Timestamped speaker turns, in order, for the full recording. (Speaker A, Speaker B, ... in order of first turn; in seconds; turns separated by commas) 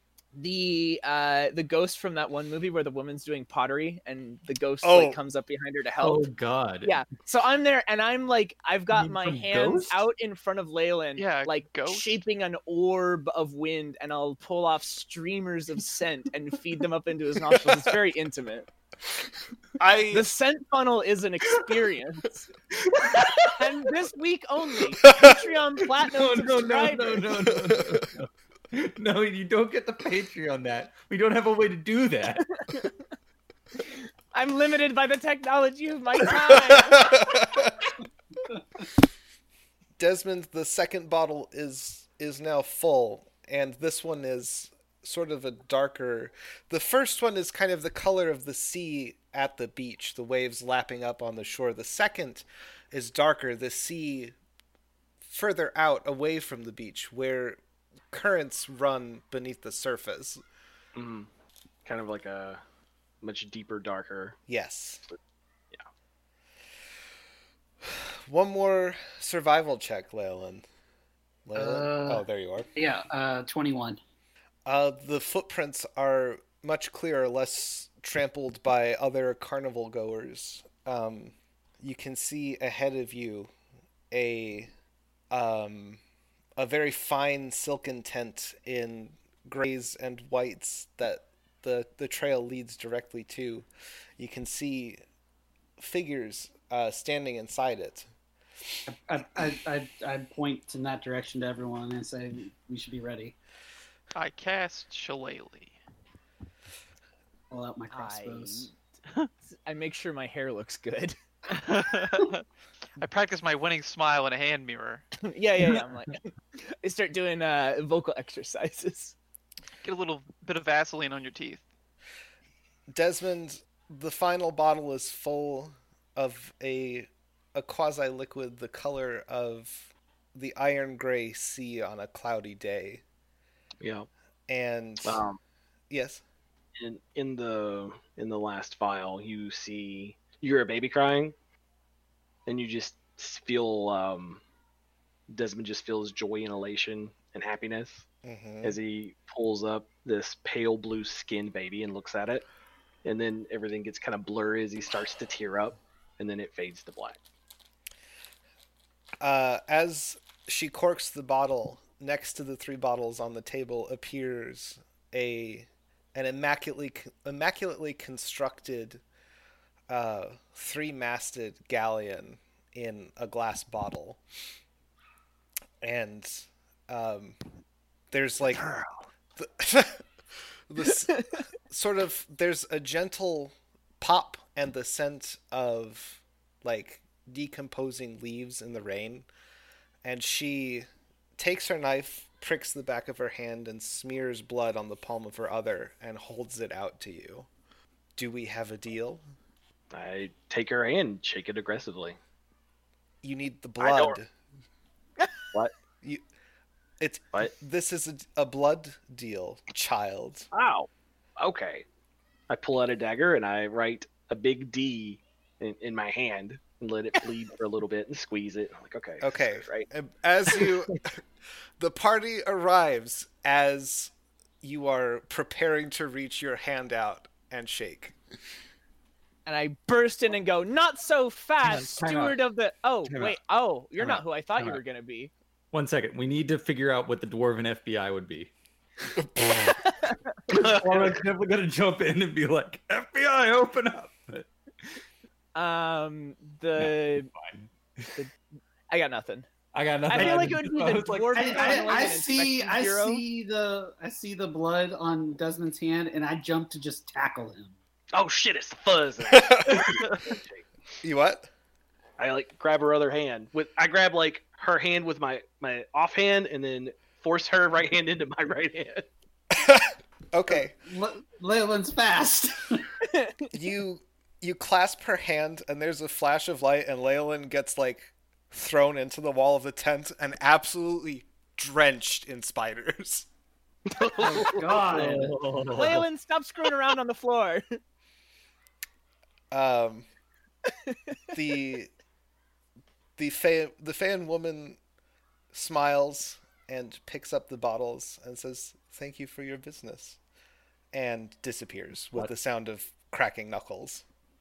Speaker A: 0.3-6.3, Speaker B: 4.8-5.2, Speaker C: 6.0-7.0, Speaker A: 6.8-18.7, Speaker C: 8.9-10.1, Speaker D: 11.2-12.2, Speaker B: 19.8-20.3, Speaker A: 20.1-22.5, Speaker C: 22.8-23.6, Speaker A: 23.2-27.3, Speaker B: 25.1-25.4, Speaker C: 26.1-32.6, Speaker A: 32.6-32.9, Speaker A: 34.3-37.2, Speaker B: 36.3-37.9, Speaker B: 40.0-54.3, Speaker B: 55.2-60.4, Speaker E: 61.0-61.3, Speaker E: 61.9-62.6, Speaker E: 63.2-64.4, Speaker B: 64.5-65.1, Speaker B: 67.8-70.7, Speaker B: 71.5-72.7, Speaker F: 71.6-72.2, Speaker F: 72.8-74.0, Speaker B: 74.7-83.5, Speaker B: 84.1-84.7, Speaker B: 85.3-86.0, Speaker B: 86.6-95.0, Speaker B: 95.8-98.1, Speaker F: 98.9-103.4, Speaker D: 104.2-105.8, Speaker F: 107.5-108.7, Speaker A: 107.9-108.8, Speaker A: 109.5-111.2, Speaker D: 111.5-112.4, Speaker D: 113.0-115.1, Speaker A: 115.2-119.2, Speaker D: 119.8-121.6, Speaker B: 122.9-133.0, Speaker E: 133.8-134.1, Speaker B: 134.5-135.2, Speaker E: 135.0-135.4, Speaker B: 135.9-136.2, Speaker E: 136.8-141.3, Speaker E: 142.5-144.4, Speaker E: 145.3-148.1, Speaker B: 148.2-148.8, Speaker E: 148.6-152.5, Speaker E: 153.0-157.2, Speaker B: 159.2-169.0, Speaker B: 169.9-174.2, Speaker B: 175.8-177.4, Speaker B: 178.1-178.8, Speaker B: 179.4-180.1, Speaker B: 180.7-189.3, Speaker B: 190.0-197.5, Speaker B: 198.2-199.2, Speaker E: 199.9-202.2, Speaker B: 203.2-204.3, Speaker E: 203.8-204.2, Speaker B: 207.0-210.5, Speaker E: 210.5-211.8, Speaker E: 212.5-219.9, Speaker B: 219.2-221.2, Speaker B: 221.8-228.2, Speaker A: 229.5-235.3, Speaker C: 231.6-232.4, Speaker C: 233.1-233.4, Speaker C: 234.0-234.8, Speaker C: 235.7-238.5, Speaker B: 239.2-239.8, Speaker A: 239.9-240.3, Speaker C: 240.5-244.5, Speaker A: 245.6-247.3, Speaker C: 246.8-248.2, Speaker A: 248.9-249.5, Speaker C: 249.7-252.1, Speaker A: 250.1-253.2, Speaker F: 250.1-250.7, Speaker F: 251.3-257.8, Speaker E: 258.1-260.6, Speaker B: 259.3-260.1, Speaker B: 261.0-261.5, Speaker E: 262.2-269.1, Speaker B: 269.5-270.7, Speaker F: 270.5-272.8, Speaker A: 273.1-273.5, Speaker B: 273.5-283.3, Speaker E: 283.9-285.1, Speaker F: 284.2-285.4, Speaker C: 284.9-286.1, Speaker A: 285.7-287.8, Speaker B: 289.5-290.1, Speaker A: 290.7-291.1, Speaker B: 291.3-291.9, Speaker B: 293.2-294.8, Speaker B: 295.5-300.2, Speaker B: 300.9-304.0